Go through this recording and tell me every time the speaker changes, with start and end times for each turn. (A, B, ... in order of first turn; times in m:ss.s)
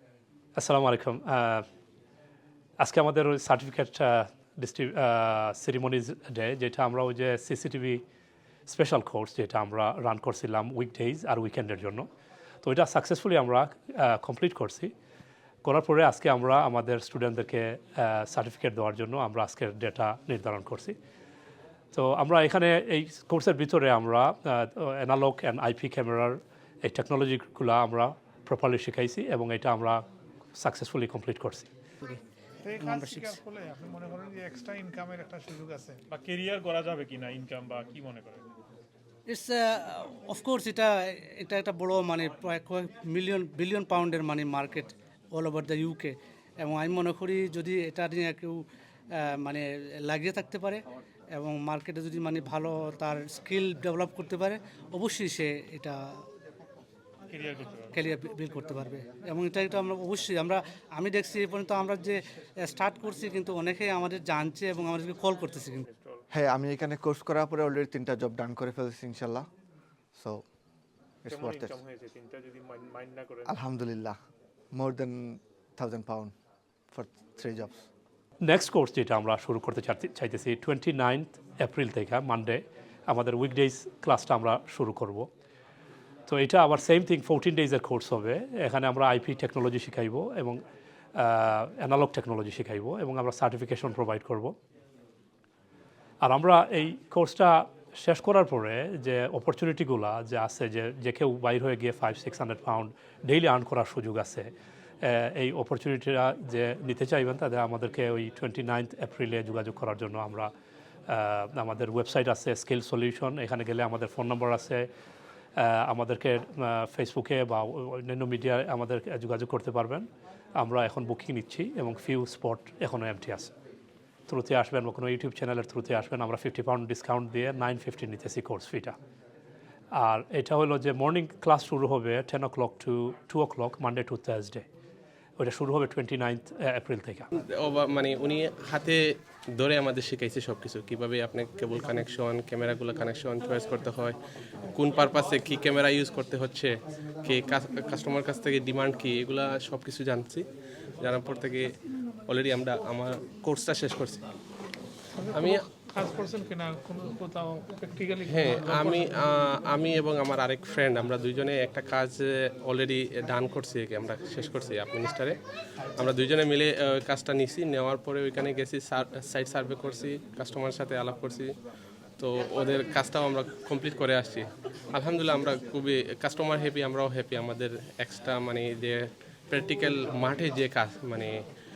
0:00.6-0:01.6 A
0:02.8-0:08.0 A
0:08.7-0:12.1 A
0:12.6-0:14.9 A
0:15.6-0:21.0 A
0:21.9-0:30.0 A
0:30.6-0:31.7 A
0:32.7-0:36.0 B
0:32.8-0:33.4 C
0:36.1-0:38.5 D
0:39.3-0:56.0 C
0:57.3-0:58.0 D
0:57.9-1:05.8 C
1:05.9-1:06.2 D
1:06.3-1:09.5 E
1:10.2-1:10.4 E
1:11.2-1:11.8 E
1:11.3-1:13.5 D
1:13.5-1:14.2 E
1:14.7-1:16.3 E
1:16.9-1:17.9 E
1:18.4-1:25.3 A
1:26.3-1:30.6 A
1:31.2-1:34.6 A
1:36.2-1:44.5 A
1:45.0-1:50.5 A
1:51.1-1:54.9 A
1:55.6-2:00.1 A
2:00.6-2:03.5 A
2:04.3-2:09.0 A
2:09.9-2:14.6 A
2:15.4-2:17.3 A
2:17.4-2:24.2 F
2:24.7-2:26.7 F
2:27.2-2:30.5 F
2:31.0-2:31.7 F
2:32.3-2:34.2 F
2:35.3-2:35.6 F
2:35.4-2:38.9 B
2:38.3-2:45.4 F
2:46.0-2:51.5 F
2:52.2-3:01.3 F